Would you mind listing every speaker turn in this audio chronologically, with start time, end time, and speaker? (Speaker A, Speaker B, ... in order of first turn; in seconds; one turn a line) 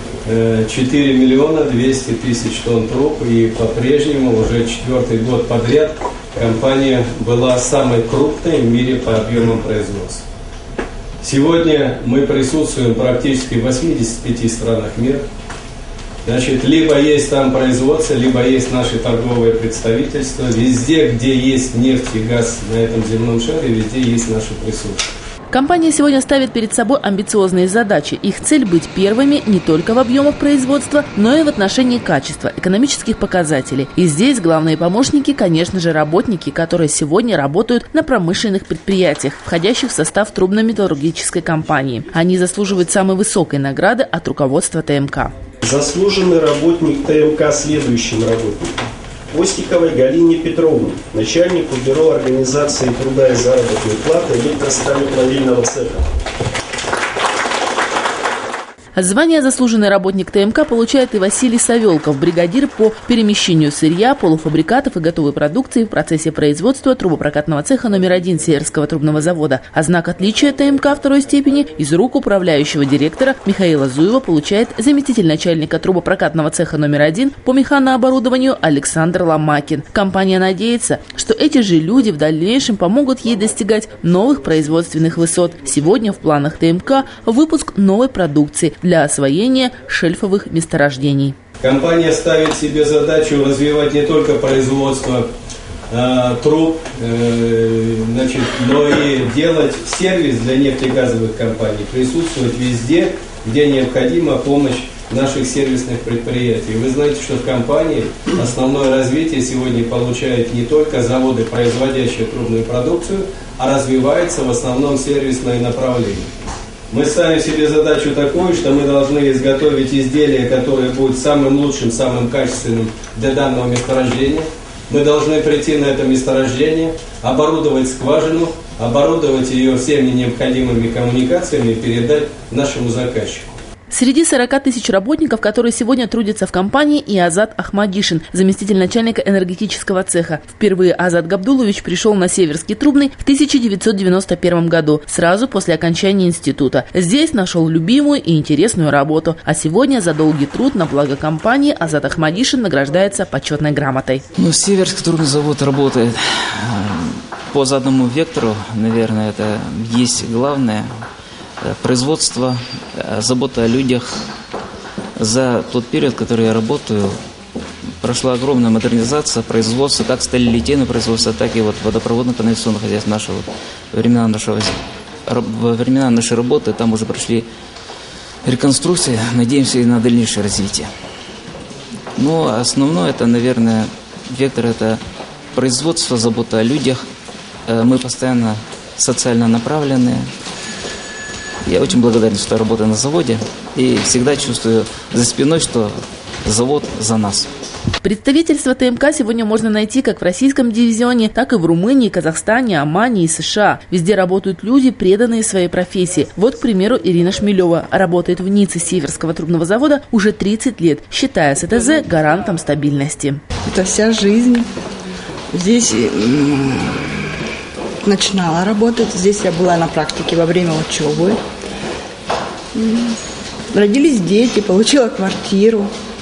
Speaker A: 0.2-10.2
Speaker A: 11.2-15.2
Speaker A: 16.2-25.1
Speaker B: 25.5-45.3
Speaker C: 45.6-56.0
Speaker B: 58.9-91.3
Speaker A: 91.6-95.3
Speaker A: 95.9-116.3
Speaker A: 116.9-133.5
Speaker B: 133.9-154.2
Speaker D: 154.4-160.9
Speaker D: 161.6-164.1
Speaker D: 165.2-167.2
Speaker D: 168.0-177.4
Speaker D: 178.4-180.9
Speaker D: 182.2-185.0
Speaker D: 185.5-187.0
Speaker D: 187.7-190.2
Speaker D: 191.6-195.9
Speaker D: 196.4-197.5
Speaker B: 198.0-213.4
Speaker E: 213.6-214.7
Speaker E: 215.5-217.3
Speaker E: 218.0-221.4
Speaker E: 222.7-225.9